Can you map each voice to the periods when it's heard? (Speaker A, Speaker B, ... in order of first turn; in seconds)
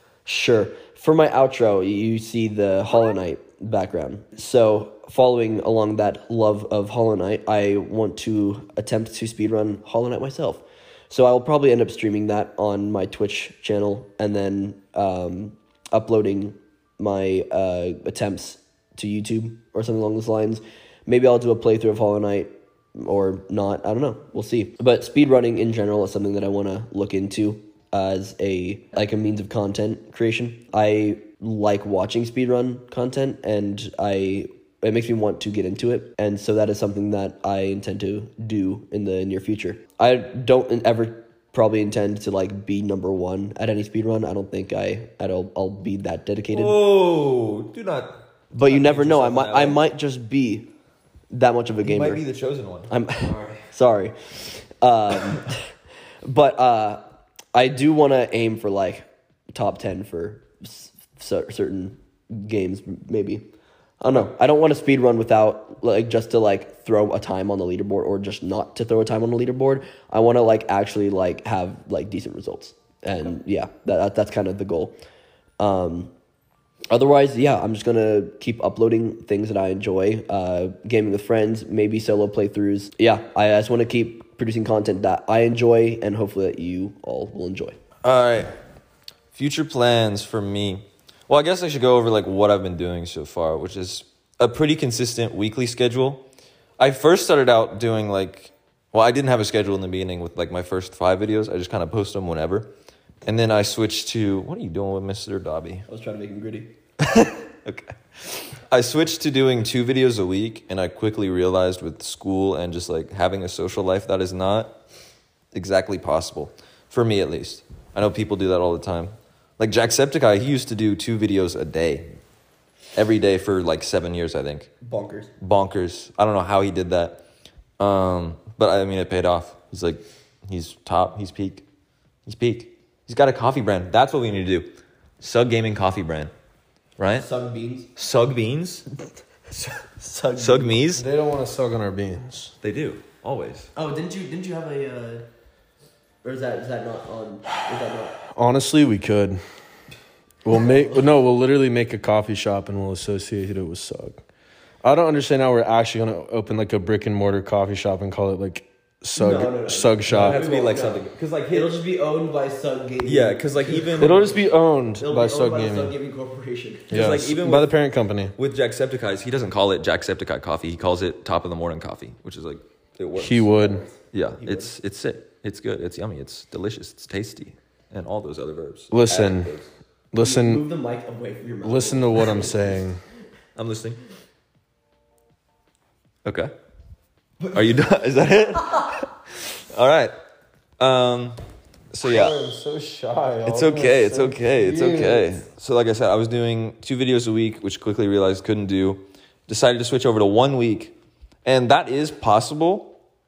Speaker A: 0.2-46.8, 48.5-50.7, 51.3-52.2, 52.9-55.6, 56.2-57.0, 57.5-63.5, 64.0-74.9, 75.6-76.1, 76.9-87.8, 105.9-106.7, 124.8-125.3, 137.1-137.9, 140.0-140.8, 143.8-145.2, 146.2-148.2, 150.5-150.9, 159.2-164.4, 165.0-167.0, 173.5-174.7, 180.2-182.8
Speaker B: 46.5-49.8, 51.8-53.6, 88.0-88.5, 89.3-96.2, 96.8-102.7, 103.2-105.8, 107.0-114.7, 115.5-122.2, 123.0-124.7, 125.4-127.2, 127.8-131.6, 132.2-136.3, 137.0-137.2, 137.9-138.8, 140.3-141.0, 142.6-143.7, 160.1-161.7, 163.0-164.4, 166.9-167.7, 168.4-173.5, 174.1-179.7, 183.6-184.0, 186.2-186.5, 187.5-190.1, 190.8-191.4, 191.9-192.4, 193.4-203.0
Speaker C: 140.9-142.5, 148.3-149.4, 150.4-154.2, 154.8-160.4, 164.0-165.9, 166.9-168.3, 173.2-173.8, 178.9-179.5, 180.1-180.6, 181.6-183.0, 192.0-195.4